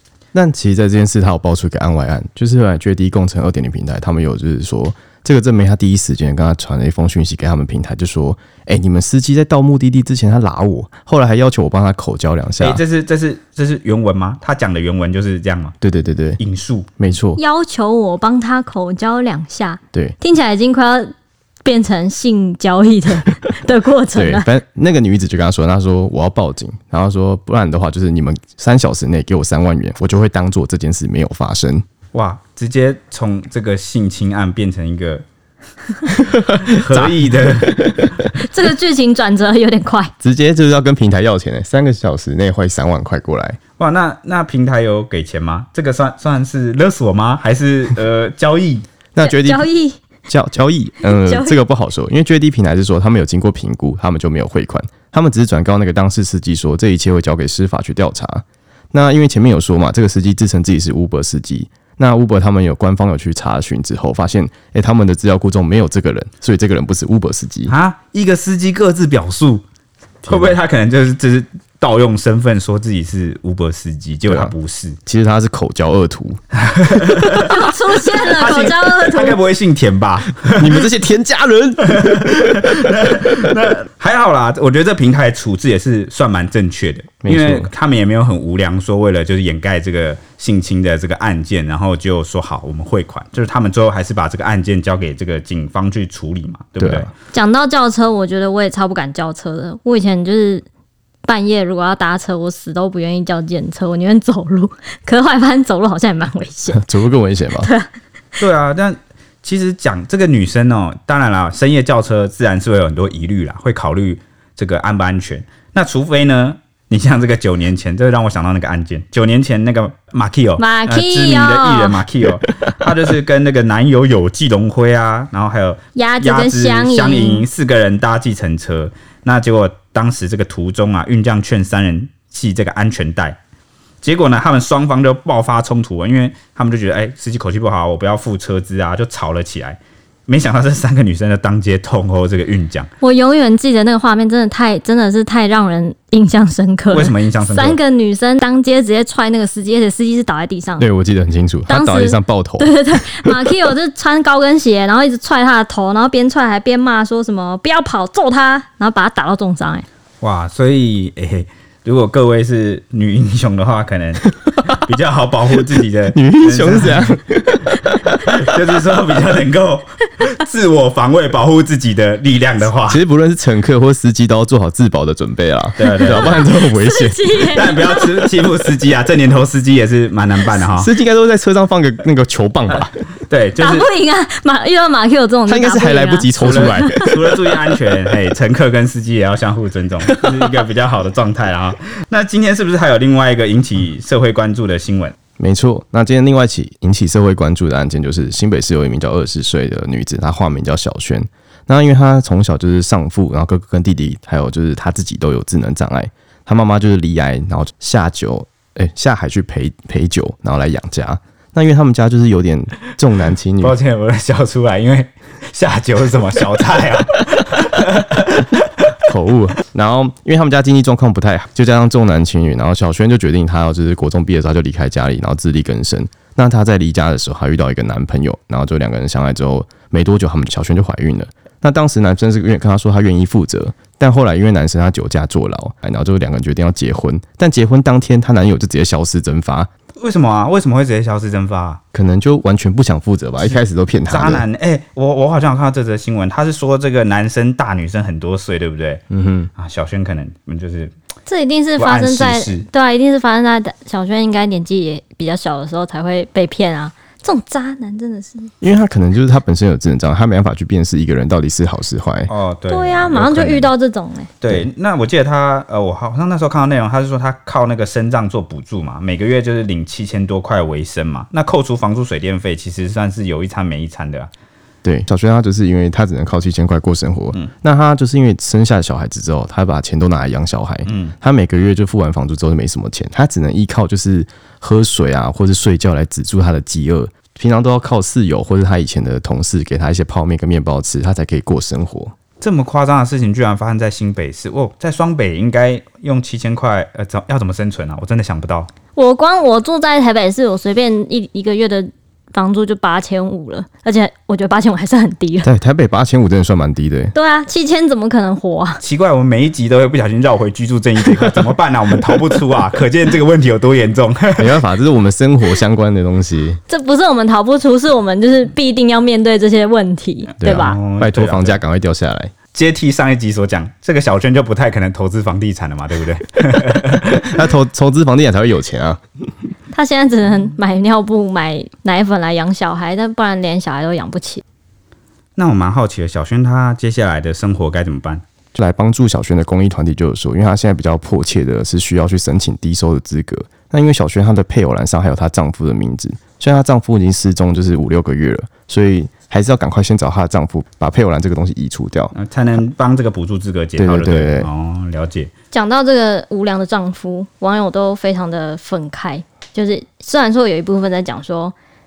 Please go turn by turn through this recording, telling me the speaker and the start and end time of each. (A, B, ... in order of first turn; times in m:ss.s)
0:00.3-0:12.8 A
0:12.6-0:15.7 B
0:15.8-0:16.4 A
0:16.4-0:16.9 B
0:17.0-0:17.4 A
0:17.4-0:21.1 C
0:21.6-0:24.5 C
0:24.1-0:31.8 A
0:32.1-0:35.2 B
0:36.2-0:38.1 A
0:36.6-0:37.8 B
0:38.3-0:40.1 C
0:40.2-0:43.6 A
0:43.8-0:48.8 B
0:49.1-0:49.6 A
0:49.2-0:50.0 C
0:50.3-1:07.7 A
0:51.0-0:51.6 C
1:07.7-1:09.6 B
1:10.2-1:15.0 B
1:10.2-1:10.6 A
1:14.3-1:14.5 A
1:15.0-1:16.4 A
1:16.7-1:17.5 B
1:17.3-1:19.4 C
1:18.1-1:20.8 B
1:20.5-1:22.7 A
1:21.9-1:37.1 B
1:27.2-1:27.7 A
1:36.8-1:37.1 A
1:37.3-1:40.6 C
1:41.2-1:46.8 C
1:46.7-1:47.7 A
1:47.6-1:47.9 C
1:48.4-2:13.4 B
2:00.6-2:02.0 C
2:05.9-2:07.5 C
2:14.0-2:22.9 B
2:23.0-2:30.9 C
2:26.9-2:27.8 B
2:30.8-2:33.3 A
2:31.7-2:39.8 C
2:40.2-2:47.1 B
2:46.1-2:48.0 A
2:48.2-2:53.0 B
2:52.8-2:57.3 A
2:55.8-2:56.4 B
2:55.8-2:58.2 C
2:57.4-3:00.9 B
3:00.6-3:02.9 A
3:02.7-3:03.9 B
3:03.6-3:07.1 C
3:05.5-3:07.2 A
3:06.4-3:15.1 B
3:15.4-3:33.8 A
3:33.6-3:38.6 B
3:39.0-3:59.7 A
4:00.0-4:01.8 B
4:01.9-4:04.4 A
4:03.4-4:09.0 B
4:09.1-4:09.5 A
4:09.6-4:10.9 B
4:11.2-4:18.5 C
4:11.8-4:12.7 B
4:18.6-4:22.3 A
4:22.3-4:23.7 B
4:22.7-4:24.3 C
4:23.2-4:23.5 A
4:24.4-4:34.3 B
4:34.8-4:52.1 A
4:40.8-4:41.1 B
4:52.4-4:58.7 B
4:58.9-5:05.5 C
5:05.4-5:07.1 A
5:07.1-5:08.8 C
5:08.8-5:14.6 B
5:14.4-5:16.6 A
5:16.7-5:20.8 C
5:20.4-5:22.3 A
5:20.4-5:21.6 B
5:22.5-5:27.2 B
5:27.2-5:29.0 A
5:29.7-5:34.4 C
5:35.4-5:38.2 B
5:38.5-5:52.1 A
5:52.1-5:55.3 B
5:53.8-5:54.5 A
5:55.5-6:01.5 C